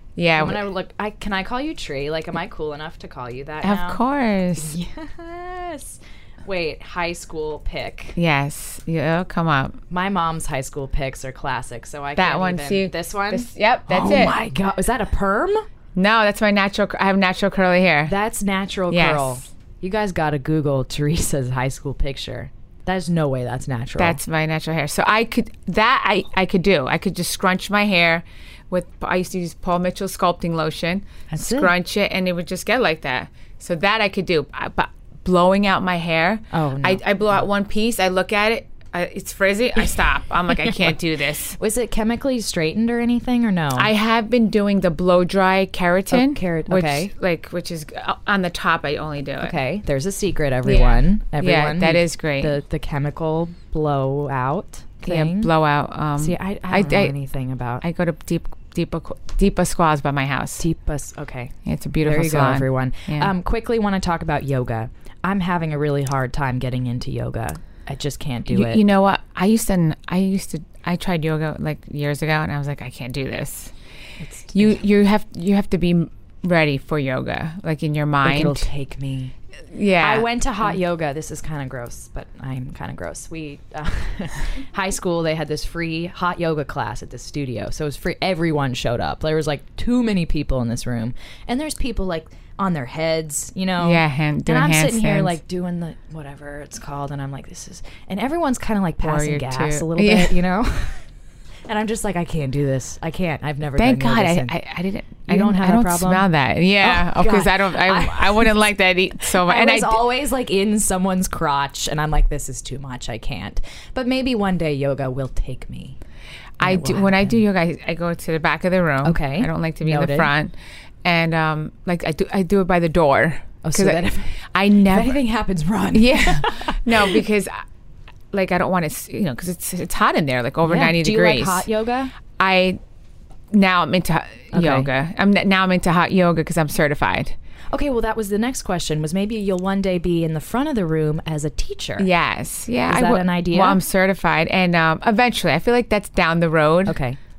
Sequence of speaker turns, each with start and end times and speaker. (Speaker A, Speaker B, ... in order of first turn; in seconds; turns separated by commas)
Speaker A: 0.2-0.7, Speaker B: 0.4-4.0, Speaker A: 3.6-4.7, Speaker B: 4.6-8.2, Speaker A: 8.2-9.8, Speaker B: 9.9-15.6, Speaker A: 12.2-14.4, Speaker A: 15.9-18.1, Speaker B: 18.1-24.2, Speaker A: 18.9-19.4, Speaker A: 24.0-41.5, Speaker B: 31.3-31.7, Speaker B: 36.5-37.0, Speaker B: 40.5-41.0, Speaker B: 41.5-43.9, Speaker A: 43.7-49.5, Speaker B: 46.1-47.1, Speaker B: 49.4-55.5, Speaker A: 50.6-52.5, Speaker A: 55.0-57.1, Speaker B: 56.2-57.8, Speaker A: 57.8-60.6, Speaker B: 60.6-68.8, Speaker A: 61.6-63.3, Speaker A: 68.5-73.7, Speaker B: 74.2-74.8, Speaker A: 74.5-78.7, Speaker B: 78.2-79.3, Speaker A: 79.7-80.8, Speaker B: 80.0-101.0, Speaker A: 93.8-95.3, Speaker A: 99.0-100.4, Speaker B: 101.7-104.5, Speaker A: 103.7-110.0, Speaker B: 105.3-106.3, Speaker B: 106.8-108.6, Speaker B: 109.2-116.0, Speaker A: 116.6-125.2, Speaker B: 116.6-117.4, Speaker B: 119.0-120.3, Speaker B: 123.6-127.2, Speaker A: 125.9-127.6, Speaker A: 128.3-131.7, Speaker B: 130.6-132.1, Speaker A: 132.4-132.8, Speaker A: 133.5-137.3, Speaker B: 134.5-134.9, Speaker B: 137.7-142.1, Speaker A: 142.0-147.0, Speaker B: 142.9-143.8, Speaker B: 146.8-147.2